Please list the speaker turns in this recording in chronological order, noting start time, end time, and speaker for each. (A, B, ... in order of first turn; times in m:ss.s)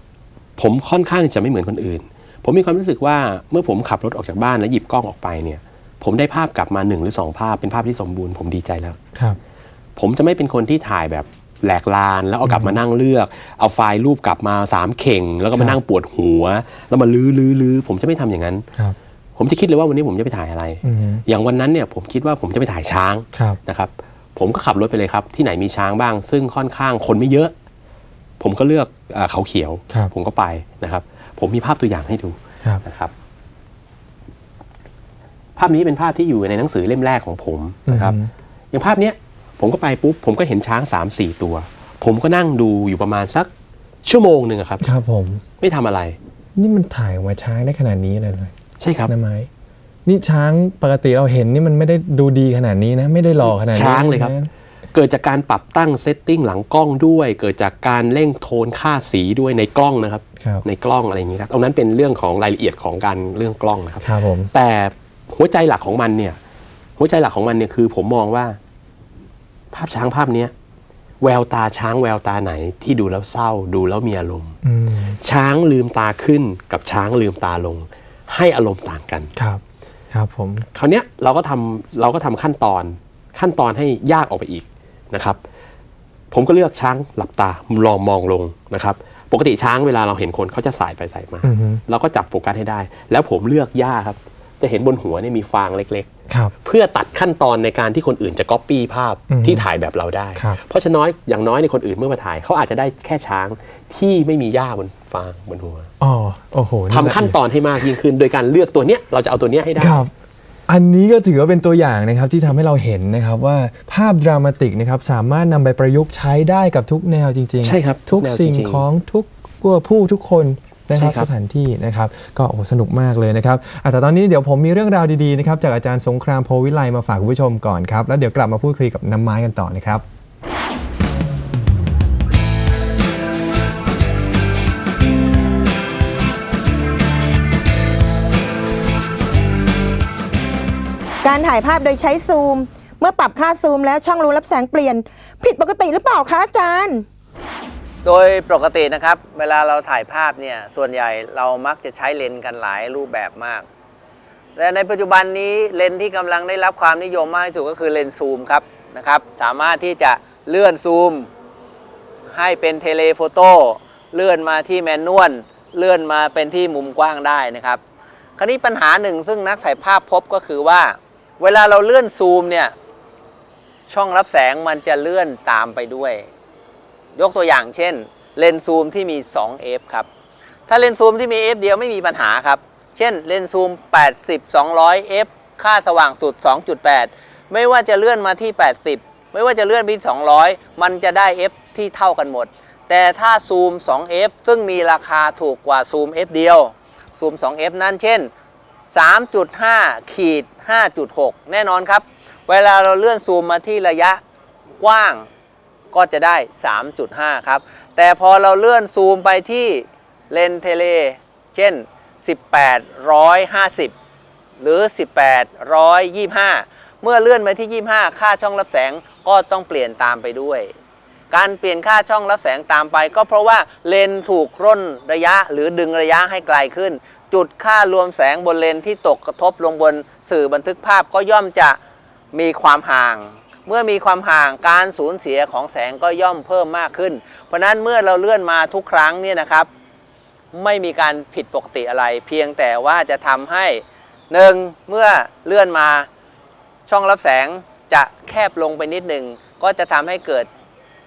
0:00.6-0:09.0 A
0:10.0-0:18.7 A
0:12.4-0:12.8 B
0:19.4-0:27.5 A
0:20.8-0:21.2 B
0:23.3-0:23.6 B
0:28.4-0:33.1 A
0:35.6-0:38.2 A
0:37.9-0:38.3 B
0:38.7-0:43.5 A
0:44.0-0:44.8 A
0:44.8-0:45.4 B
0:45.6-0:46.2 A
0:46.6-0:48.5 B
0:48.8-0:49.1 A
0:49.1-0:49.5 B
0:50.0-0:54.5 B
0:53.6-0:54.3 A
0:54.9-1:06.4 A
1:04.0-1:04.5 B
1:07.0-1:08.6 A
1:09.7-1:10.5 A
1:11.2-1:14.6 A
1:14.6-1:15.2 B
1:15.2-1:19.3 A
1:19.3-1:19.6 B
1:20.1-1:20.7 B
1:20.7-1:25.4 A
1:26.3-1:36.1 A
1:31.4-1:31.8 B
1:36.3-1:36.5 B
1:36.6-1:45.9 A
1:39.3-1:39.6 B
1:46.0-1:47.4 B
1:46.9-1:50.0 A
1:49.8-1:50.1 B
1:50.7-2:10.0 B
1:57.6-1:58.8 A
2:00.9-2:01.3 A
2:21.2-2:27.0 C
2:28.0-2:33.6 D
2:34.6-2:41.3 D
2:42.3-2:47.8 D
2:48.4-2:52.7 D
2:53.9-2:56.3 D
2:57.2-3:00.1 D
3:00.7-3:18.3 D
3:18.9-3:24.2 D
3:24.8-3:25.2 D
3:25.9-3:33.9 D
3:34.6-3:40.7 D
3:41.3-3:51.8 D
3:52.3-3:59.7 D
4:00.5-4:06.1 D
4:06.9-4:10.5 D